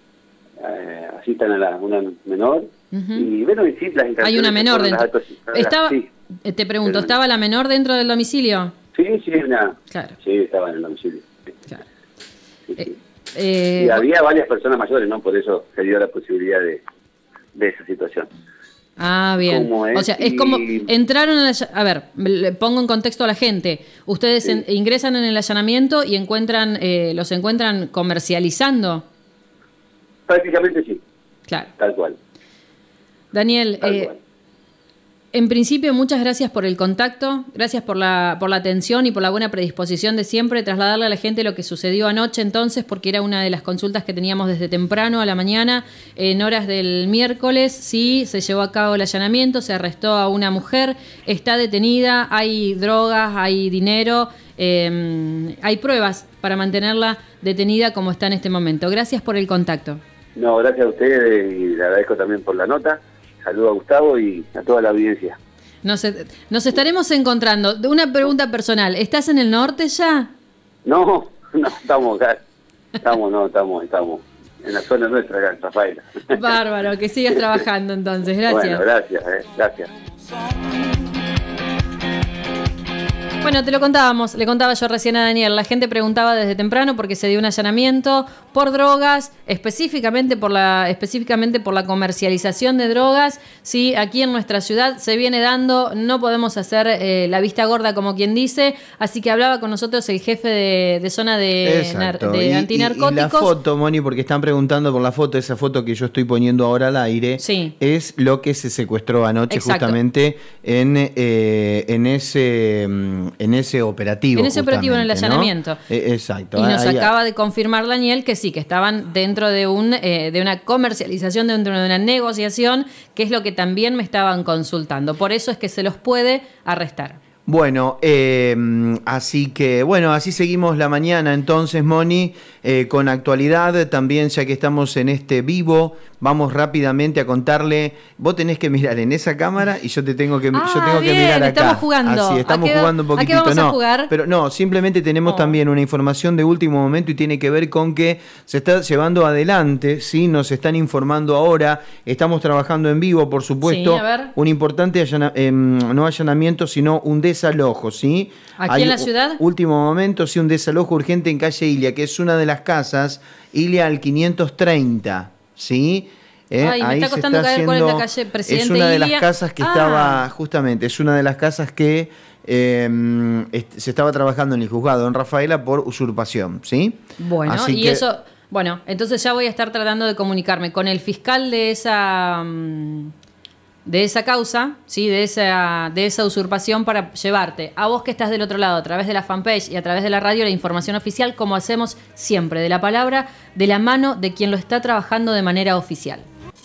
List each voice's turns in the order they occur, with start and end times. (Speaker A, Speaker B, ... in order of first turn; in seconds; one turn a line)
Speaker A: 0.6-6.1
Speaker B: 2.9-3.3
Speaker B: 4.2-8.7
Speaker A: 6.8-7.1
Speaker A: 8.9-11.3
Speaker B: 12.8-14.0
Speaker A: 13.8-16.8
Speaker A: 17.5-18.3
Speaker B: 19.0-29.0
Speaker A: 19.4-20.9
Speaker A: 30.3-31.0
Speaker A: 31.8-32.2
Speaker B: 33.3-34.1
Speaker A: 33.8-34.2
Speaker B: 35.3-60.0
Speaker A: 60.4-65.4
Speaker B: 65.8-70.3
Speaker A: 70.8-72.4
Speaker A: 73.0-76.3
Speaker B: 76.3-78.8
Speaker A: 78.5-79.9
Speaker B: 83.4-103.5
Speaker C: 101.6-117.1
Speaker B: 107.4-107.7
Speaker B: 109.5-110.0
Speaker B: 114.3-115.8
Speaker B: 116.5-127.2
Speaker C: 127.5-178.0
Speaker B: 140.5-144.1
Speaker B: 145.2-145.6
Speaker B: 153.6-154.3
Speaker B: 158.6-159.4
Speaker B: 166.6-170.3
Speaker B: 177.2-183.1
Speaker B: 183.8-196.2